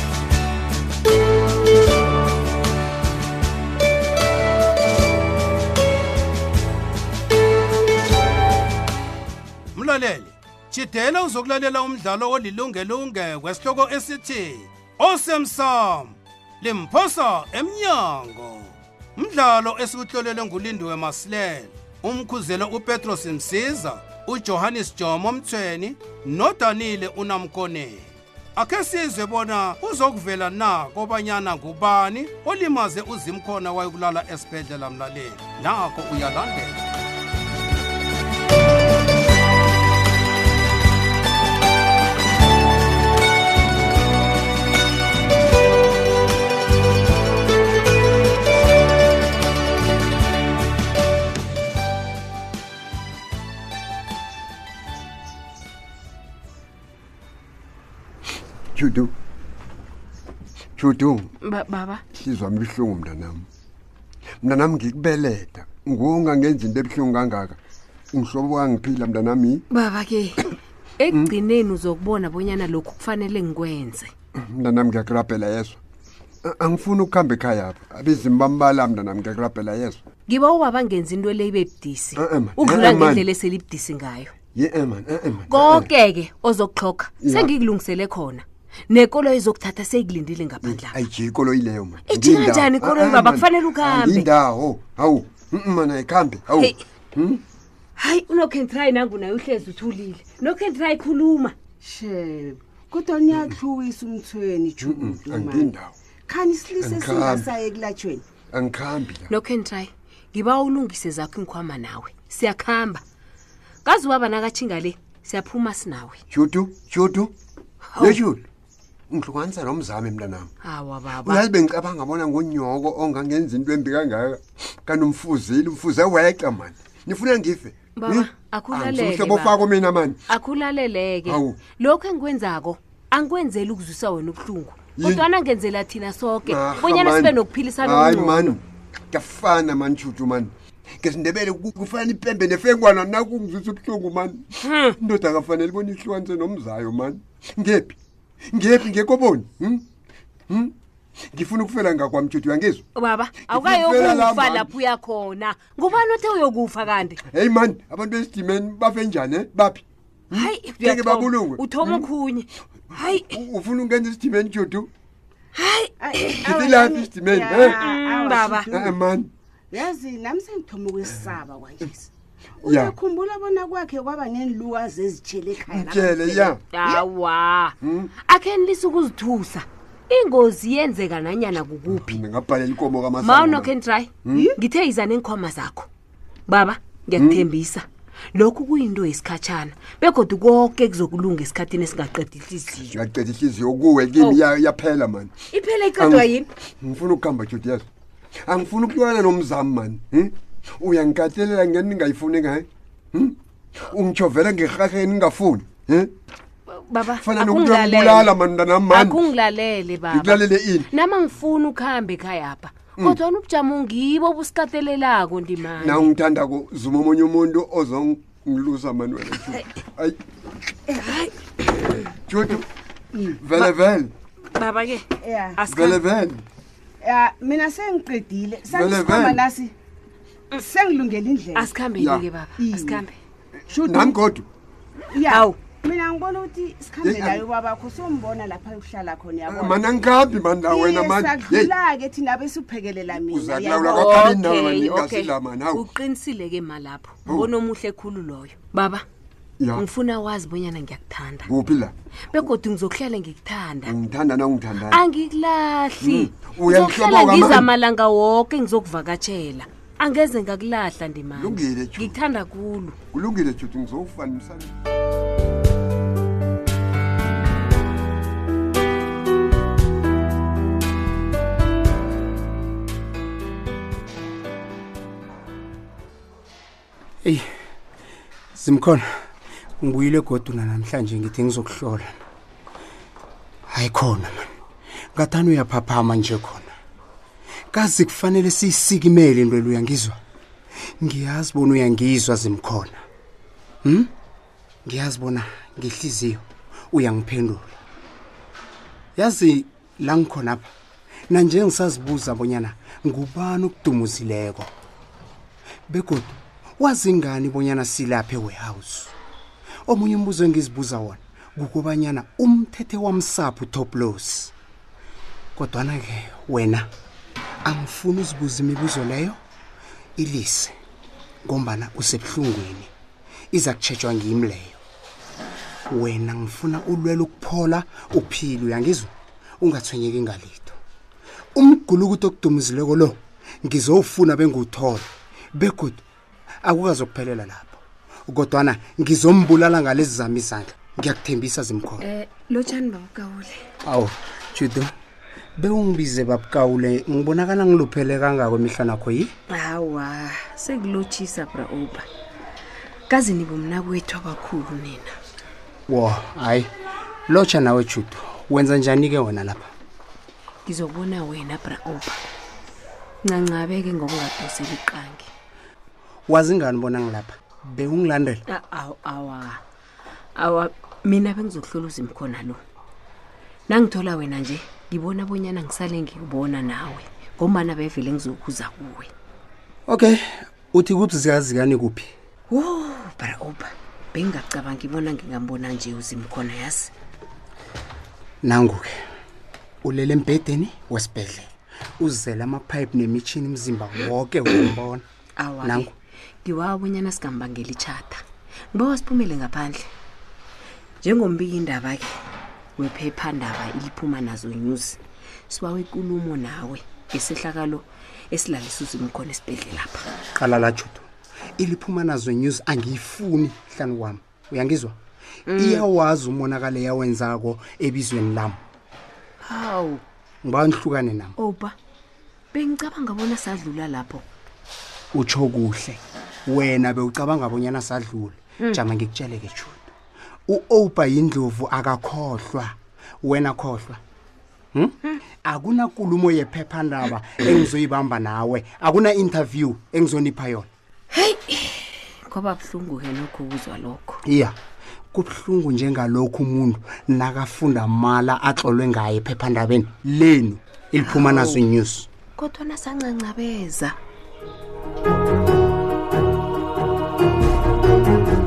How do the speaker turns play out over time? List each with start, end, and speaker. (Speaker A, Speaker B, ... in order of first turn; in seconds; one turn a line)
Speaker A: 9.7-36.8
Speaker B: 58.7-59.1
Speaker B: 60.8-61.3
Speaker C: 61.4-62.0
Speaker B: 62.1-63.4
Speaker B: 64.4-67.6
Speaker B: 68.1-69.6
Speaker C: 69.7-74.1
Speaker B: 74.4-75.8
Speaker B: 76.4-80.0
Speaker C: 80.3-84.3
Speaker B: 82.2-83.2
Speaker B: 84.5-85.9
Speaker C: 85.5-91.0
Speaker B: 87.2-87.5
Speaker B: 90.6-97.4
Speaker C: 92.1-94.3
Speaker C: 96.5-96.8
Speaker C: 98.0-101.5
Speaker D: 101.8-105.7
Speaker B: 104.8-106.0
Speaker D: 106.3-108.2
Speaker B: 106.8-107.6
Speaker B: 108.5-109.3
Speaker C: 109.3-113.0
Speaker C: 113.8-116.2
Speaker B: 116.3-117.3
Speaker C: 117.9-118.2
Speaker B: 118.0-118.5
Speaker B: 119.1-120.5
Speaker C: 120.6-121.5
Speaker B: 121.1-130.2
Speaker C: 128.0-129.7
Speaker C: 130.3-138.6
Speaker B: 131.2-131.5
Speaker B: 135.0-135.3
Speaker B: 136.4-144.4
Speaker C: 144.6-145.0
Speaker B: 145.0-148.0
Speaker B: 148.5-149.8
Speaker B: 150.5-150.7
Speaker B: 151.3-152.8
Speaker C: 152.9-157.2
Speaker B: 153.5-154.7
Speaker B: 157.3-162.1
Speaker C: 160.3-163.4
Speaker B: 163.1-164.9
Speaker C: 165.5-166.5
Speaker D: 166.0-169.0
Speaker B: 166.4-167.8
Speaker C: 167.6-168.7
Speaker B: 168.7-169.3
Speaker D: 169.7-172.1
Speaker D: 172.6-177.0
Speaker B: 172.6-172.9
Speaker B: 175.7-176.6
Speaker C: 176.7-177.7
Speaker B: 177.8-178.1
Speaker C: 178.3-182.2
Speaker B: 181.9-183.7
Speaker C: 183.2-185.9
Speaker B: 184.2-184.5
Speaker C: 186.5-192.9
Speaker B: 187.2-187.4
Speaker B: 192.9-195.3
Speaker C: 195.5-196.4
Speaker B: 195.9-196.3
Speaker B: 196.8-197.8
Speaker B: 198.5-203.3
Speaker B: 203.9-206.1
Speaker C: 206.9-208.3
Speaker B: 207.2-209.2
Speaker C: 208.9-216.1
Speaker B: 210.1-210.9
Speaker B: 215.8-220.2
Speaker C: 221.0-222.0
Speaker B: 222.3-222.6
Speaker B: 223.3-224.1
Speaker C: 224.5-226.0
Speaker D: 225.2-225.7
Speaker B: 225.7-226.4
Speaker D: 227.0-229.7
Speaker B: 228.7-229.4
Speaker D: 230.6-231.7
Speaker C: 231.5-233.1
Speaker B: 231.9-232.2
Speaker D: 232.6-233.0
Speaker D: 233.7-234.2
Speaker B: 233.7-234.4
Speaker D: 235.1-239.8
Speaker C: 235.3-235.6
Speaker B: 237.0-237.4
Speaker B: 239.4-241.7
Speaker D: 240.7-243.9
Speaker B: 243.2-245.8
Speaker C: 243.6-249.0
Speaker B: 249.6-249.8
Speaker C: 249.7-251.5
Speaker B: 251.4-251.9
Speaker C: 252.3-253.9
Speaker B: 253.8-255.0
Speaker C: 254.9-262.9
Speaker B: 256.0-257.7
Speaker B: 261.3-262.1
Speaker B: 263.1-264.7
Speaker E: 278.5-279.1
Speaker E: 279.8-282.2
Speaker E: 283.7-284.5
Speaker E: 285.1-286.7
Speaker E: 287.7-290.2
Speaker E: 291.0-293.0
Speaker E: 293.8-294.1
Speaker E: 294.9-297.8
Speaker E: 299.1-300.7
Speaker E: 301.3-304.7
Speaker E: 305.9-309.1
Speaker E: 309.9-314.5
Speaker E: 315.6-316.9
Speaker E: 317.6-319.4
Speaker E: 320.2-320.7
Speaker E: 321.4-322.9
Speaker E: 323.5-324.8
Speaker E: 325.9-329.1
Speaker E: 329.6-330.8
Speaker E: 331.5-336.0
Speaker E: 336.6-342.0
Speaker C: 342.0-343.6
Speaker E: 343.8-344.9
Speaker E: 345.6-349.3
Speaker C: 349.5-352.0
Speaker C: 353.1-355.1
Speaker E: 355.9-356.7
Speaker E: 357.3-359.7
Speaker C: 360.6-362.2
Speaker C: 363.3-365.3
Speaker E: 366.3-368.4
Speaker C: 368.5-369.6
Speaker C: 370.4-372.6
Speaker C: 373.7-379.1
Speaker E: 379.9-380.2
Speaker E: 380.7-382.1
Speaker C: 382.5-386.9
Speaker E: 388.4-388.9
Speaker E: 389.8-395.0
Speaker C: 395.4-395.9
Speaker E: 395.6-395.9
Speaker C: 396.4-398.2
Speaker C: 398.7-399.9
Speaker C: 401.0-402.1
Speaker C: 402.8-405.0
Speaker C: 405.5-410.0
Speaker E: 410.4-411.1
Speaker E: 411.6-414.9
Speaker C: 415.5-415.9
Speaker E: 415.5-418.6
Speaker C: 419.4-420.0
Speaker E: 420.4-421.3
Speaker C: 421.4-421.7
Speaker C: 422.5-424.2
Speaker E: 425.1-429.9
Speaker E: 430.5-434.0
Speaker E: 434.7-440.7
Speaker C: 441.1-444.2
Speaker E: 444.2-444.5
Speaker E: 445.1-452.1
Speaker C: 451.0-451.6
Speaker C: 452.4-453.9